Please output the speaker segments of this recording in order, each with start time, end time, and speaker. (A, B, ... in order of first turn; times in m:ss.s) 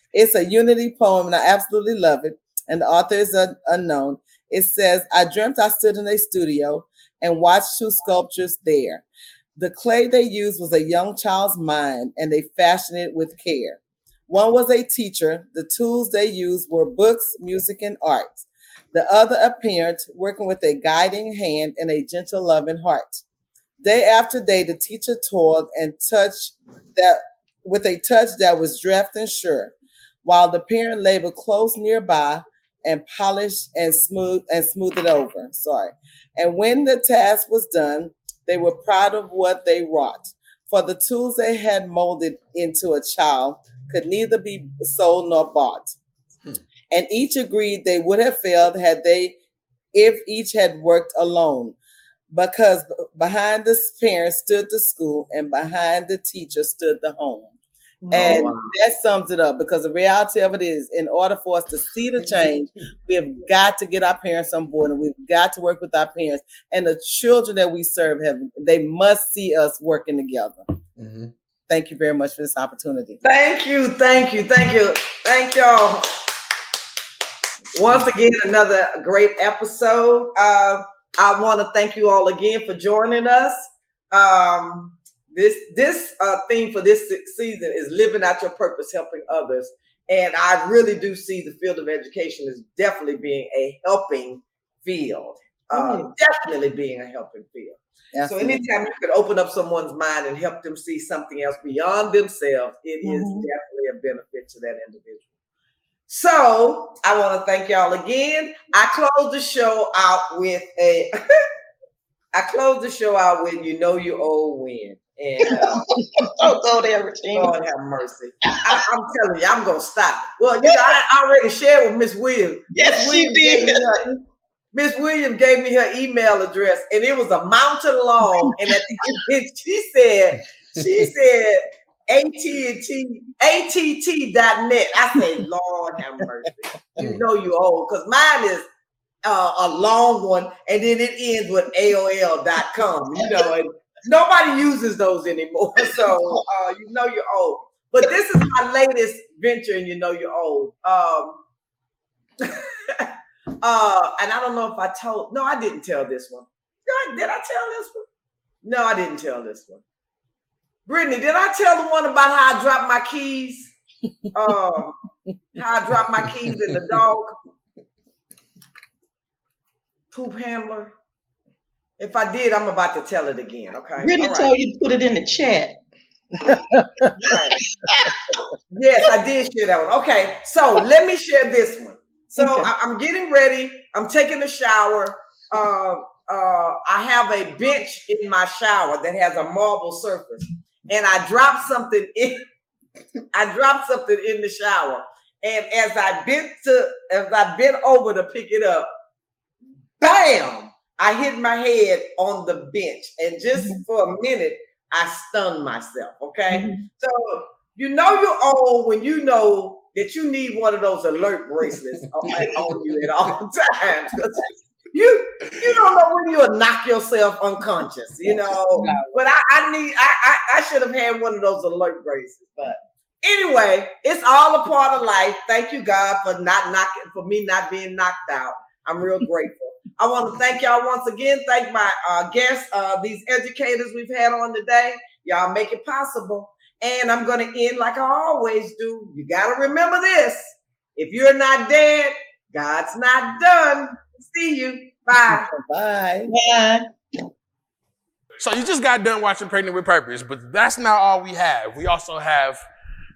0:00.1-0:09.0 A
0:09.6-0:23.2 A
0:23.8-0:46.0 A
0:46.9-0:49.4 A
0:49.9-0:51.8 A
0:52.3-0:57.5 A
0:58.0-0:58.4 B
0:58.1-0:58.7 C
0:58.1-1:10.7 A
1:11.0-1:11.3 D
1:11.7-1:13.2 A
1:13.2-1:16.1 C
1:17.7-1:23.6 C
1:24.1-1:45.3 C
1:35.7-1:36.1 B
1:38.1-1:38.6 A
1:43.0-1:43.5 B
1:46.1-1:51.1 C
1:52.3-1:55.8 C
1:55.4-1:57.6 B
1:57.3-2:04.2 C
2:02.7-2:03.9 B
2:04.7-2:18.6 C
2:17.0-2:17.2 D
2:19.2-2:31.4 C
2:23.2-2:23.4 B
2:25.8-2:26.4 B
2:32.4-2:38.0 C
2:38.6-2:39.8 C
2:40.9-2:43.7 C
2:44.3-2:45.0 C
2:45.6-2:47.3 C
2:50.1-2:50.9 C
2:52.0-2:54.5 C
2:54.0-2:55.8 B
2:56.5-2:57.1 A
2:57.1-2:57.6 C
2:57.2-2:58.4 B
2:58.7-3:12.4 C
3:02.4-3:02.7 B
3:13.3-3:18.9 C
3:20.0-4:00.4 C
3:23.6-3:23.8 B
3:26.5-3:26.9 B
4:01.0-4:05.5 C
4:05.2-4:06.3 A
4:06.3-4:06.9 B
4:08.4-4:12.6 D